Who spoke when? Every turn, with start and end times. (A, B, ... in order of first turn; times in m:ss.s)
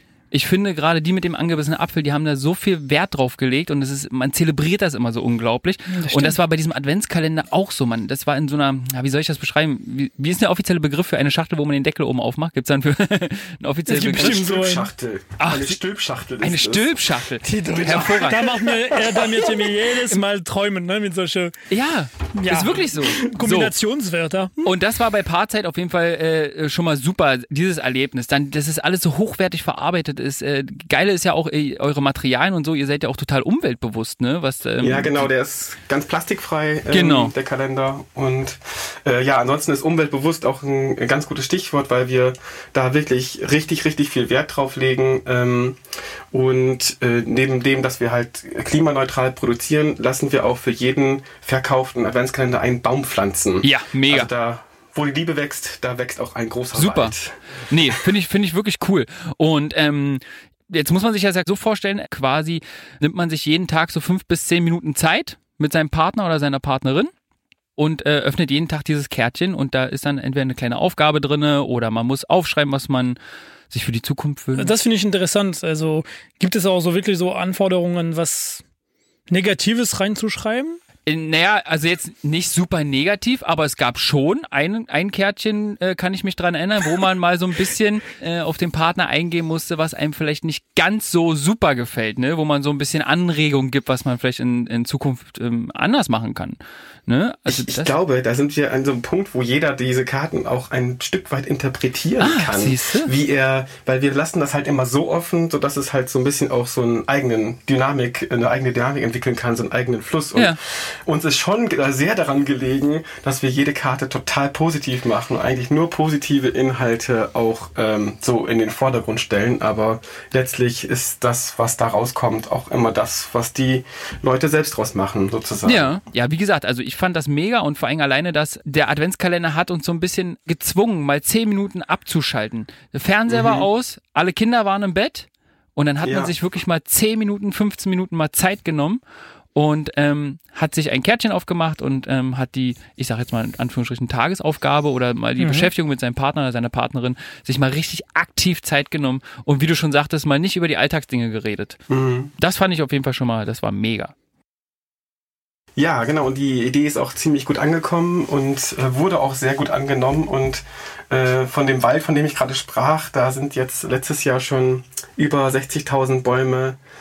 0:00.3-0:14.5 A
0:05.9-0:06.4 B
0:13.9-0:14.9 B
0:14.1-0:16.9 C
0:15.4-0:15.8 A
0:16.4-0:18.6 A
0:17.4-0:21.5 B
0:17.8-0:18.2 C
0:21.7-0:23.7 A
0:22.3-0:24.7 B
0:24.6-0:35.3 A
0:34.8-0:45.8 C
0:36.9-0:37.3 A
0:46.3-0:58.0 C
0:53.6-0:54.3 A
0:56.7-0:57.1 A
0:57.7-1:07.1 A
1:07.8-1:13.2 A
1:13.7-1:14.7 A
1:14.6-1:18.6 B
1:19.3-1:20.8 B
1:21.0-1:37.9 A
1:37.5-2:05.9 C
1:42.2-1:43.1 A
2:05.6-2:19.0 A
2:13.3-2:13.7 C
2:16.0-2:16.3 C
2:19.5-2:31.8 A
2:25.4-2:25.7 B
2:31.9-2:32.3 C
2:32.4-2:34.1 A
2:35.8-2:46.8 C